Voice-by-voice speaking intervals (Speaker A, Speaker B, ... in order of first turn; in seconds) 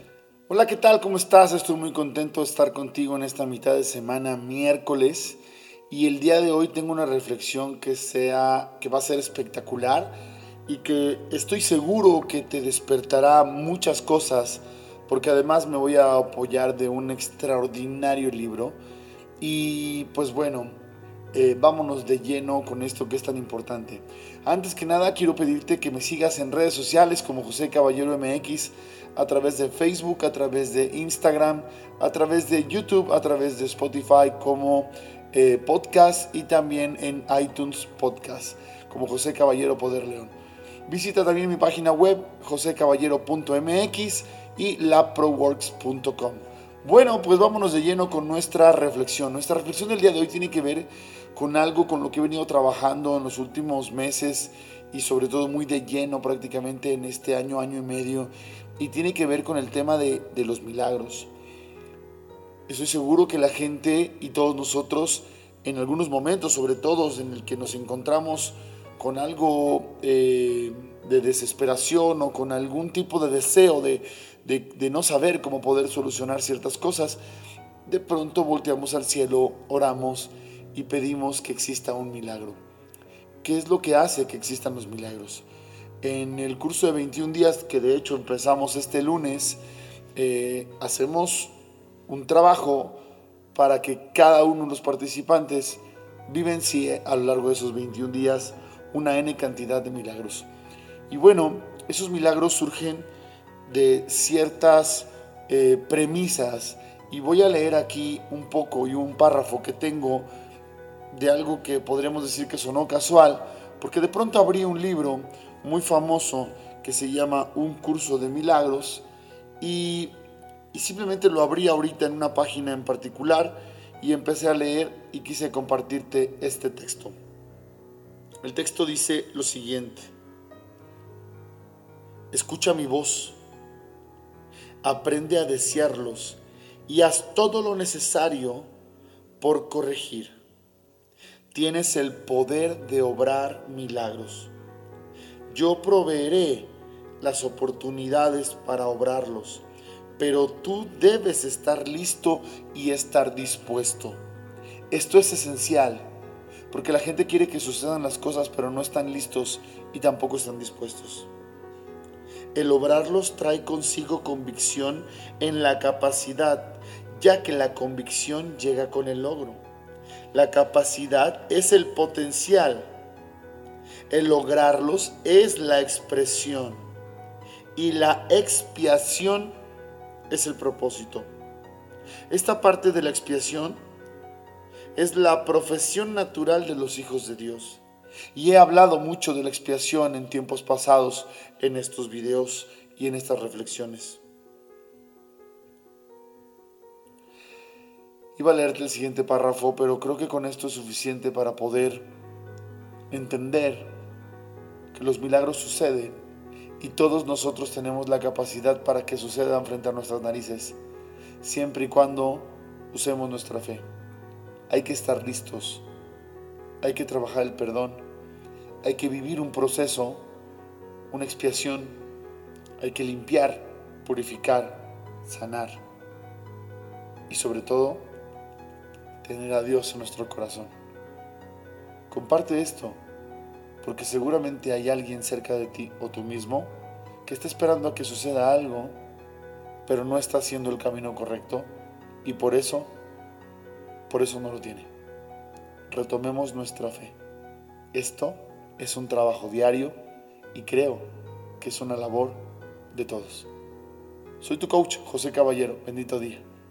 Speaker A: 0.5-10.1, 10.7-18.8, 19.4-20.8, 21.3-40.3, 40.9-61.3, 62.7-77.2, 77.8-82.6, 83.4-85.5, 86.0-89.6, 90.2-91.5, 92.1-93.0, 93.5-100.5, 101.1-103.1, 103.7-110.3, 111.1-119.0, 119.6-120.1, 120.7-127.2, 128.4-130.1, 132.3-133.4, 134.8-138.7, 139.4-140.3, 141.5-144.5, 145.5-149.6, 150.2-154.2, 154.9-156.0, 156.7-161.3, 162.5-169.6, 170.3-172.9, 174.1-176.9, 177.7-179.5, 180.3-181.3, 182.3-183.8, 184.9-187.8, 188.3-194.2, 198.3-202.0, 203.1-203.9, 204.9-206.2, 206.8-210.8, 211.4-213.8, 214.7-215.8, 216.8-218.0, 218.8-220.2, 221.1-221.9, 222.8-225.8, 227.3-228.1, 229.2-230.7, 232.1-233.0, 233.8-239.0, 239.8-241.7, 242.2-242.9, 244.1-244.9, 245.9-247.2, 247.9-250.0, 250.5-251.1, 251.6-253.5, 254.4-256.4